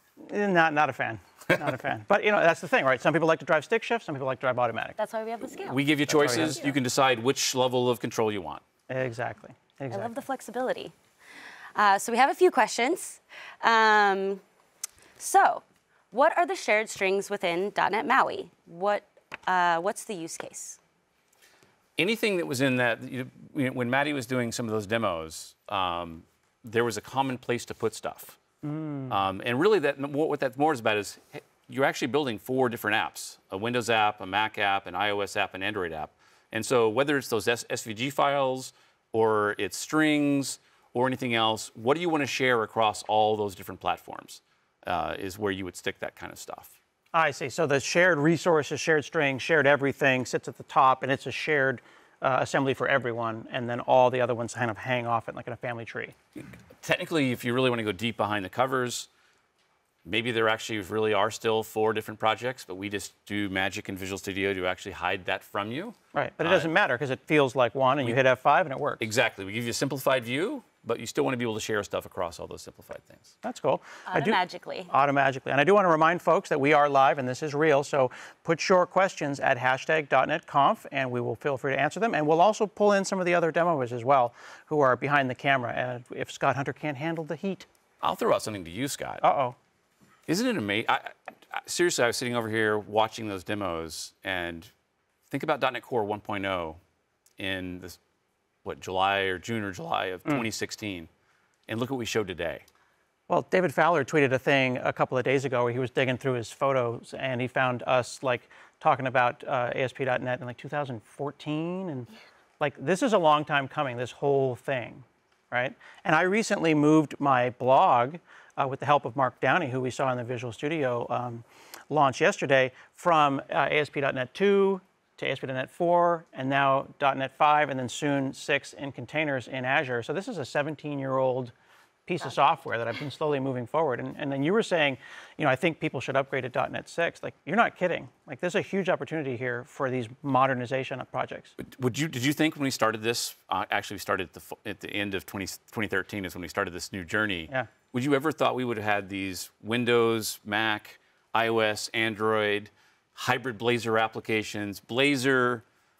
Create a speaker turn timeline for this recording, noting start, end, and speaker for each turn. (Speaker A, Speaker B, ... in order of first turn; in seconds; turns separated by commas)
Speaker A: 0.2-5.0, Speaker B: 5.0-5.8, Speaker C: 5.7-8.6, Speaker A: 6.1-6.7, Speaker A: 8.9-10.1, Speaker B: 9.9-10.9, Speaker B: 11.7-14.4, Speaker B: 15.2-20.8, Speaker C: 22.0-28.4, Speaker A: 28.6-29.2, Speaker C: 29.1-46.7, Speaker A: 47.1-56.1, Speaker C: 56.4-59.1, Speaker C: 60.0-66.7, Speaker A: 66.1-69.0, Speaker C: 69.0-73.3, Speaker A: 73.4-87.7, Speaker B: 74.1-74.9, Speaker C: 88.0-89.2, Speaker A: 89.2-89.5, Speaker C: 90.3-94.7, Speaker C: 95.3-96.8, Speaker C: 97.4-98.0, Speaker C: 98.6-101.1, Speaker C: 101.7-102.6, Speaker A: 103.3-112.1, Speaker A: 112.6-131.5, Speaker A: 132.1-141.5, Speaker C: 141.6-155.6